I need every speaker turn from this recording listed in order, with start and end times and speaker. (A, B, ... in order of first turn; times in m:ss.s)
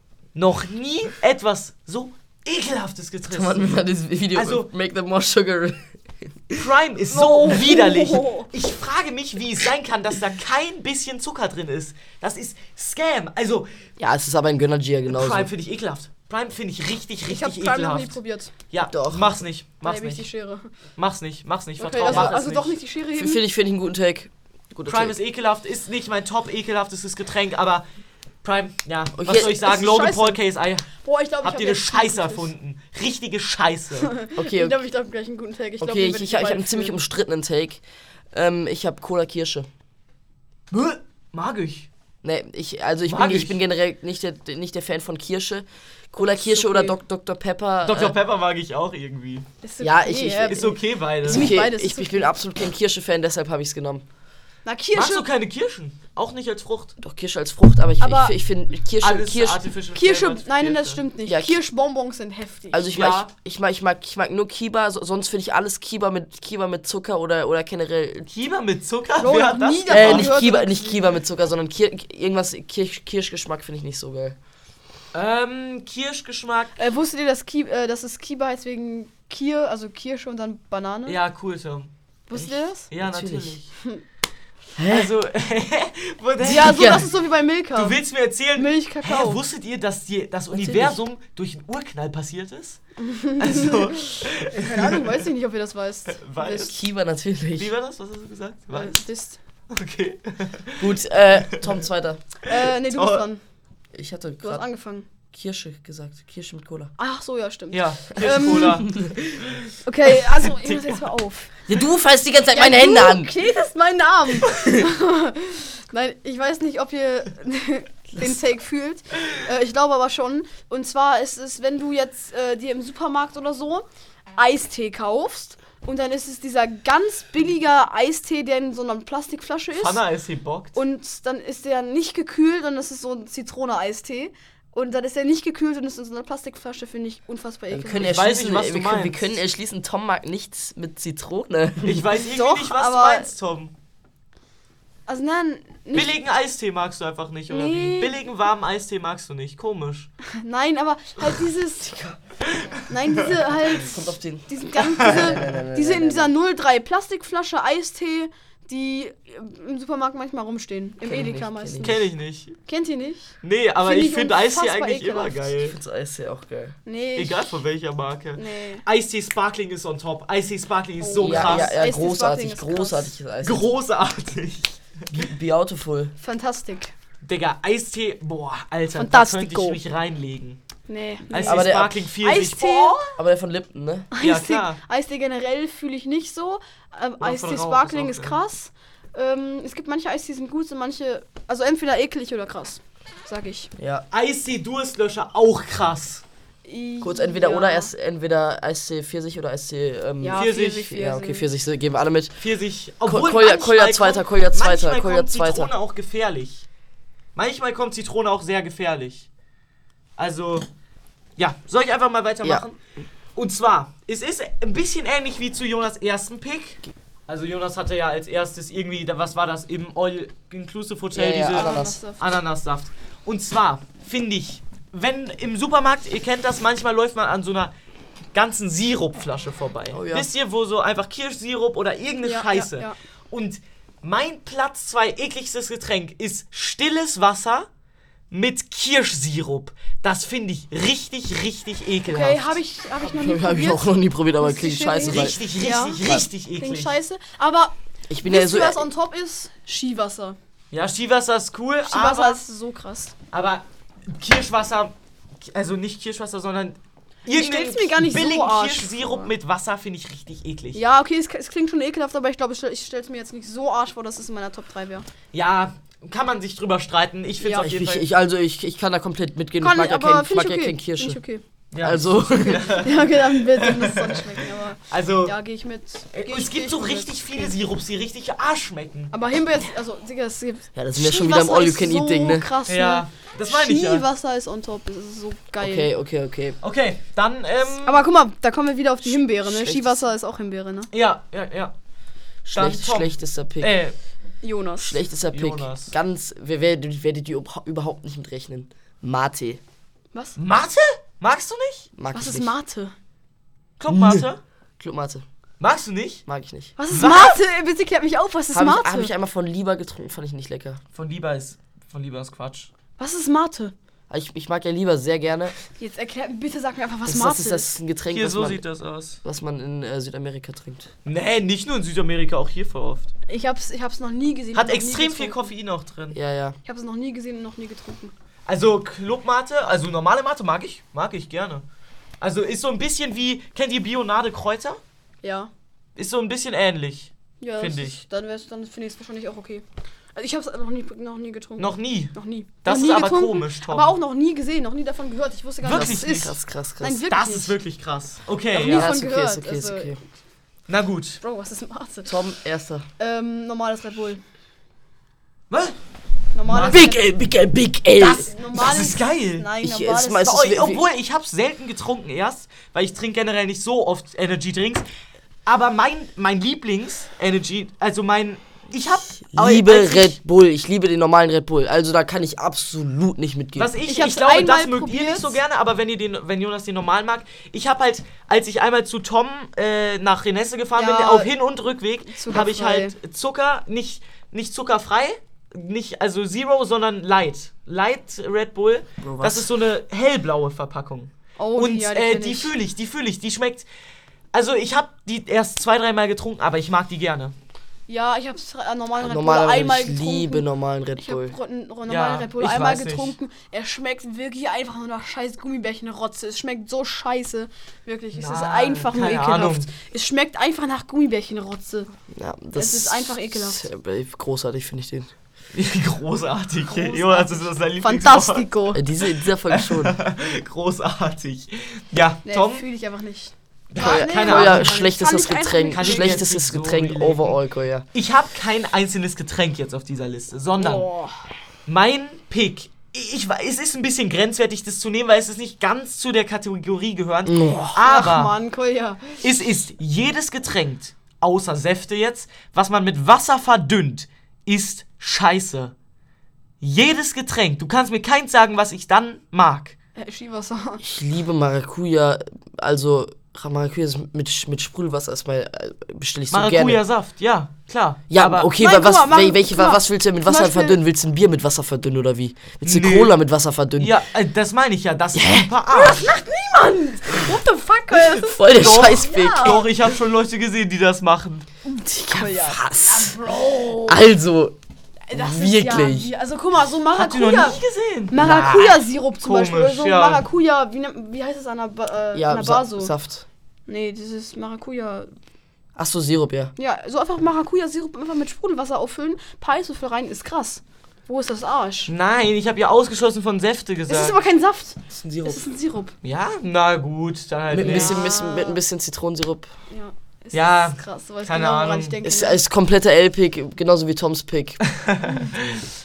0:00.3-0:03.6 A
0:03.3-0:06.7 B
0:04.3-0:04.7 A
0:06.5-0:13.8 A
0:07.1-0:08.5 C
0:14.0-0:15.5 B
0:15.1-0:18.2 A
0:17.3-0:18.5 C
0:18.7-0:20.2 A
0:18.9-0:19.4 B
0:19.8-0:20.7 C
0:21.0-0:22.8 A
0:21.8-0:23.4 C
0:22.0-0:22.3 B
0:23.1-0:25.2 B
0:24.8-0:27.8 A
0:28.4-0:30.9 A
0:29.2-0:29.6 B
0:29.3-0:30.4 C
0:30.9-0:32.5 C
0:31.4-0:34.1 A
0:34.0-0:37.0 C
0:34.4-0:34.8 B
0:35.8-0:39.7 B
0:40.7-0:41.9 A
0:42.2-0:48.2 B
0:43.1-0:43.6 A
0:46.2-0:46.9 C
0:47.8-0:49.5 A
0:49.6-0:52.3 C
0:49.8-0:54.0 B
0:50.5-0:51.5 A
0:54.6-0:55.3 C
0:54.9-0:56.9 A
0:57.0-0:59.6 B
0:58.0-0:58.3 C
0:59.0-1:01.0 A
0:59.9-1:03.0 C
1:01.3-1:01.6 B
1:02.7-1:08.3 B
1:02.9-1:03.3 A
1:08.3-1:10.3 A
1:09.2-1:11.0 C
1:09.9-1:14.4 B
1:15.1-1:16.8 A
1:16.8-1:21.2 C
1:21.0-1:21.9 A
1:22.3-1:22.9 C
1:22.9-1:23.7 A
1:23.0-1:23.6 B
1:24.8-1:25.1 B
1:24.9-1:27.0 A
1:26.4-1:28.0 C
1:26.4-1:27.1 B
1:27.7-1:32.8 A
1:28.6-1:29.4 C
1:30.5-1:31.0 B
1:33.0-1:36.7 C
1:33.4-1:35.2 A
1:36.1-1:36.8 A
1:36.6-1:37.7 B
1:37.6-1:39.0 A
1:38.7-1:39.4 C
1:39.7-1:41.0 A
1:40.8-1:42.2 B
1:42.4-1:43.4 C
1:42.4-1:43.2 A
1:43.9-1:44.6 B
1:44.4-1:45.0 C
1:45.3-1:46.9 B
1:47.0-1:48.8 C
1:47.7-1:49.7 A
1:48.5-1:49.2 B
1:49.8-1:51.5 C
1:50.5-1:51.0 A
1:51.7-1:53.4 B
1:52.5-2:10.0 C
1:54.5-1:54.8 B
2:09.7-2:10.8 A
2:10.7-2:18.2 C
2:17.7-2:22.1 B
2:18.0-2:19.3 A
2:21.8-2:23.7 A
2:22.3-2:23.3 C
2:25.1-2:26.2 C
2:25.9-2:30.1 A
2:27.5-2:28.2 C
2:30.3-2:32.2 C
2:32.9-2:42.0 C
2:33.7-2:36.3 B
2:41.0-2:42.0 B
2:41.8-2:42.6 A
2:42.6-2:45.5 C
2:43.4-2:45.8 A
2:45.6-2:46.8 B
2:46.8-2:47.6 C
2:47.2-2:51.7 A
2:48.4-2:48.8 C
2:51.0-2:53.1 C
2:51.2-2:53.7 B
2:53.4-2:55.3 A
2:55.1-2:56.1 B
2:56.2-2:56.9 C
2:57.2-3:00.6 A
2:58.9-2:59.8 C
3:00.9-3:03.1 C
3:01.3-3:03.0 A
3:01.4-3:02.0 B
3:03.2-3:04.1 B
3:04.1-3:13.7 C
3:04.2-3:04.8 A
3:07.2-3:08.4 A
3:13.8-3:14.0 B
3:14.1-3:16.2 A
3:16.6-3:17.9 C
3:17.0-3:22.4 B
3:20.2-3:21.5 C
3:20.3-3:20.8 A
3:22.4-3:26.6 A
3:23.0-3:25.7 B
3:27.4-3:29.3 A
3:30.2-3:30.7 A
3:31.4-3:32.7 A
3:33.3-3:47.7 A
3:41.1-3:42.0 B
3:41.4-3:42.2 C
3:48.3-3:57.7 A
3:49.9-3:50.3 B
3:52.2-3:53.0 C
3:58.3-4:02.5 A
4:02.0-4:03.8 C
4:03.0-4:05.4 B
4:04.4-4:06.0 C
4:05.0-4:06.9 A
4:06.6-4:07.7 C
4:08.1-4:08.9 B
4:08.2-4:10.4 C
4:10.7-4:12.4 A
4:11.8-4:13.1 C
4:13.3-4:20.8 A
4:17.3-4:19.3 C
4:20.7-4:25.0 C
4:25.3-4:28.0 A
4:27.4-4:27.7 C
4:27.6-4:31.2 B
4:29.6-4:31.4 C
4:31.7-4:35.4 A
4:31.8-4:32.8 B
4:32.6-4:37.5 C
4:36.1-4:39.1 A
4:39.1-4:45.9 C
4:40.7-4:42.5 B
4:42.7-4:44.0 A
4:45.6-4:46.6 B
4:46.6-4:48.0 A
4:47.8-4:50.9 C
4:49.0-4:50.0 B
4:50.9-4:51.7 A
4:52.4-4:53.8 B
4:52.5-4:53.9 A
4:54.4-4:55.0 C
4:54.8-4:59.6 B
4:55.3-4:55.9 A
5:00.4-5:01.9 A
5:02.0-5:02.5 B
5:02.1-5:02.9 C
5:03.8-5:04.4 A
5:03.9-5:04.2 B
5:04.8-5:05.2 B
5:05.6-5:06.2 A
5:06.3-5:06.7 B
5:06.8-5:09.1 C
5:06.9-5:07.4 A
5:08.5-5:10.8 B
5:10.9-5:12.7 A
5:13.0-5:13.7 C
5:14.1-5:15.5 B
5:15.8-5:17.7 C
5:17.1-5:18.6 B
5:18.1-5:19.2 A
5:19.2-5:20.9 B
5:21.0-5:23.1 A
5:23.3-5:25.5 C
5:24.5-5:26.2 A
5:26.1-5:26.6 B
5:26.6-5:28.1 C
5:28.4-5:31.6 A
5:32.2-5:34.8 A
5:35.2-5:35.5 C
5:36.0-5:38.0 A
5:37.4-5:47.5 C
5:41.6-5:43.9 A
5:45.6-5:46.3 A
5:45.7-5:47.0 B
5:47.1-5:48.9 A
5:48.5-5:49.9 C
5:48.6-5:50.0 B
5:50.7-5:51.2 A
5:51.2-5:52.2 C
5:52.0-5:52.8 B
5:53.0-5:54.2 C
5:55.5-5:55.8 A
5:56.3-5:57.0 C
5:56.4-5:56.9 A
5:56.6-5:58.3 B
5:58.0-5:59.5 A
5:58.0-6:00.3 C
5:59.6-6:00.9 B
6:00.2-6:04.8 A
6:05.4-6:10.1 A
6:09.3-6:13.7 B
6:13.6-6:33.6 A
6:13.8-6:15.4 C
6:20.8-6:21.3 C
6:22.1-6:22.9 C
6:29.0-6:29.5 B
6:31.4-6:32.5 C
6:34.3-6:37.3 A
6:37.9-6:40.4 C
6:39.0-6:41.4 B
6:41.0-6:51.9 C
6:41.9-6:43.1 A
6:48.1-6:49.7 A
6:52.1-6:55.1 B
6:52.6-6:53.7 C
6:55.5-6:58.5 A
6:56.7-6:58.8 C
6:58.7-7:00.0 B
6:59.5-7:02.6 A
7:02.2-7:06.2 C
7:03.7-7:04.9 A
7:03.8-7:07.8 B
7:05.7-7:07.4 A
7:07.9-7:10.9 A
7:10.6-7:11.2 C
7:11.7-7:18.3 A
7:17.3-7:17.8 B
7:17.8-7:19.2 C
7:19.2-7:25.7 A
7:26.6-7:29.8 A
7:30.0-7:30.8 C
7:30.8-7:36.8 B
7:36.3-7:38.5 A
7:38.1-7:44.0 B
7:38.6-7:40.8 C
7:42.6-7:43.1 A
7:43.8-7:46.1 A
7:45.1-7:45.5 B
7:45.7-7:49.6 C
7:48.1-7:49.7 B
7:48.5-7:51.5 A
7:51.6-7:54.0 C
7:52.1-7:53.2 B
7:53.8-7:54.6 B
7:55.1-8:02.9 C
7:55.1-7:56.1 B
7:56.9-8:00.2 A
8:02.1-8:03.2 B
8:03.7-8:05.1 C
8:05.8-8:06.5 B
8:06.6-8:11.9 C
8:11.9-8:14.2 A
8:13.9-8:15.9 C
8:14.9-8:15.5 B
8:16.0-8:18.0 A
8:17.5-8:19.5 B
8:17.6-8:18.6 C
8:19.7-8:22.4 C
8:20.3-8:22.0 A
8:22.0-8:24.6 B
8:24.7-8:25.6 A
8:25.0-8:25.3 C